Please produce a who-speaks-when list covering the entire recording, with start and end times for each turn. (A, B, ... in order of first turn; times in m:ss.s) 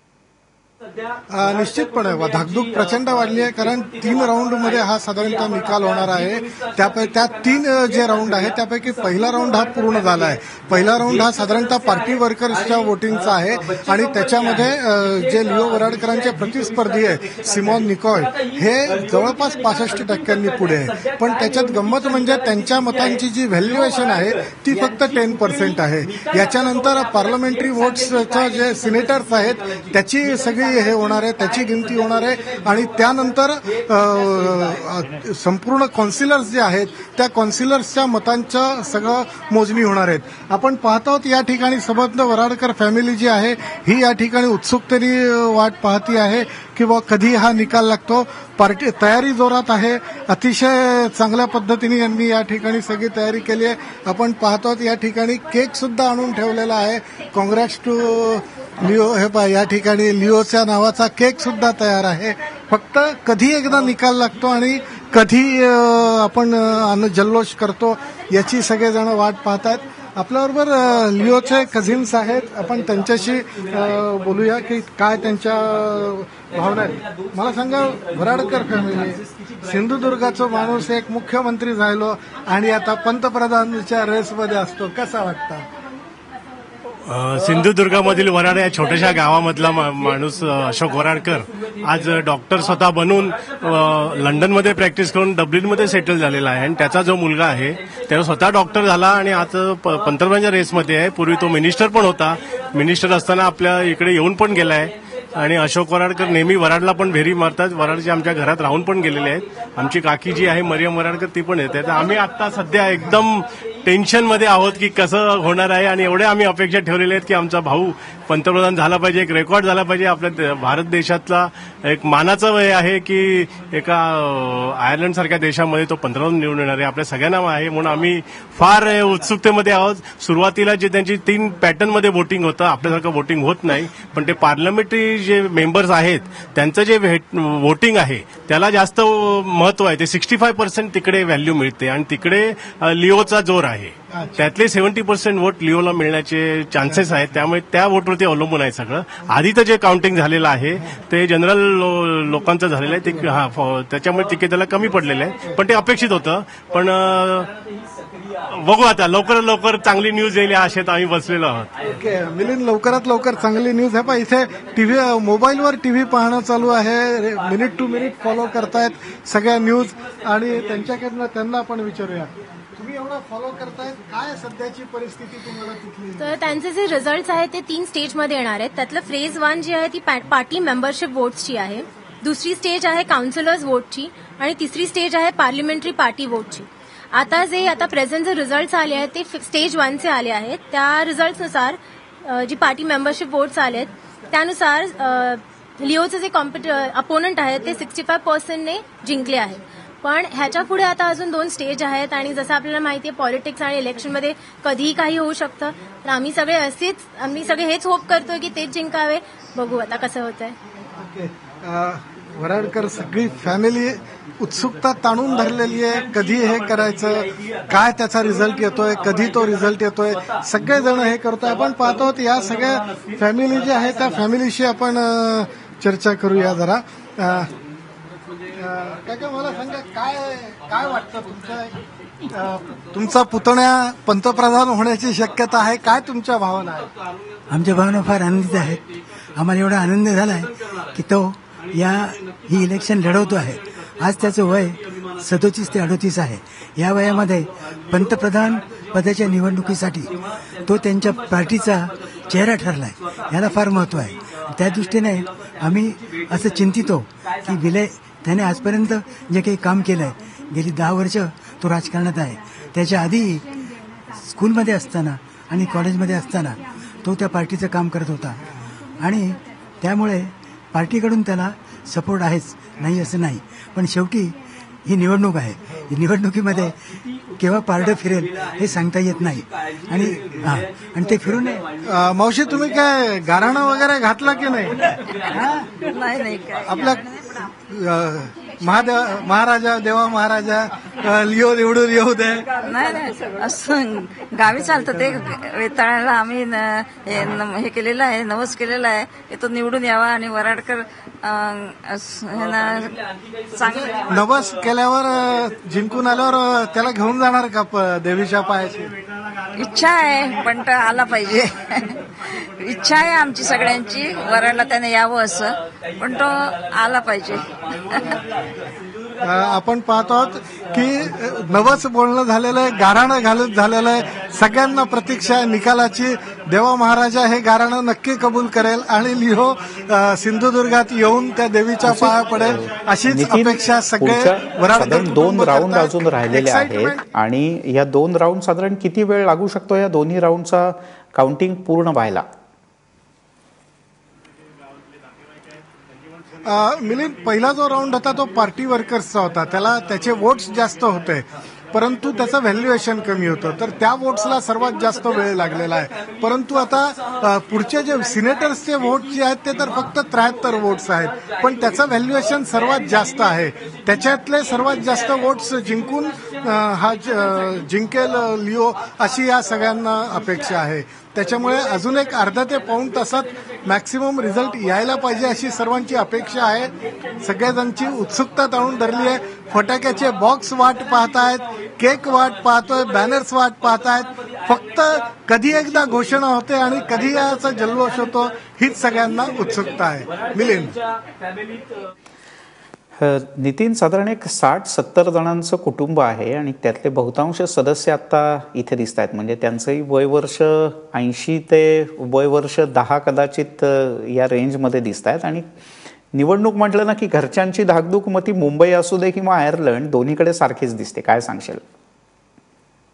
0:01.3-1:25.7 A
1:27.1-2:37.5 B
2:24.1-2:24.4 A
2:38.5-2:41.7 B
2:42.0-2:56.4 A
2:56.2-3:30.6 C
3:31.0-3:47.5 A
3:48.6-3:51.7 A
3:52.3-3:56.9 A
3:57.5-3:58.8 D
3:59.3-4:10.1 D
4:10.6-4:23.5 D
4:24.2-4:36.8 D
4:37.4-4:41.6 D
4:41.8-4:44.8 A
4:45.3-4:45.7 D
4:45.9-4:46.9 E
4:46.6-4:47.0 A
4:47.6-4:52.5 A
4:52.7-5:02.9 E
5:03.8-5:08.9 A
5:09.6-5:11.8 E
5:12.5-5:17.5 E
5:19.2-5:37.0 A
5:31.8-5:42.2 F
5:46.4-6:30.8 A
6:33.0-6:45.4 F
6:46.1-6:51.6 F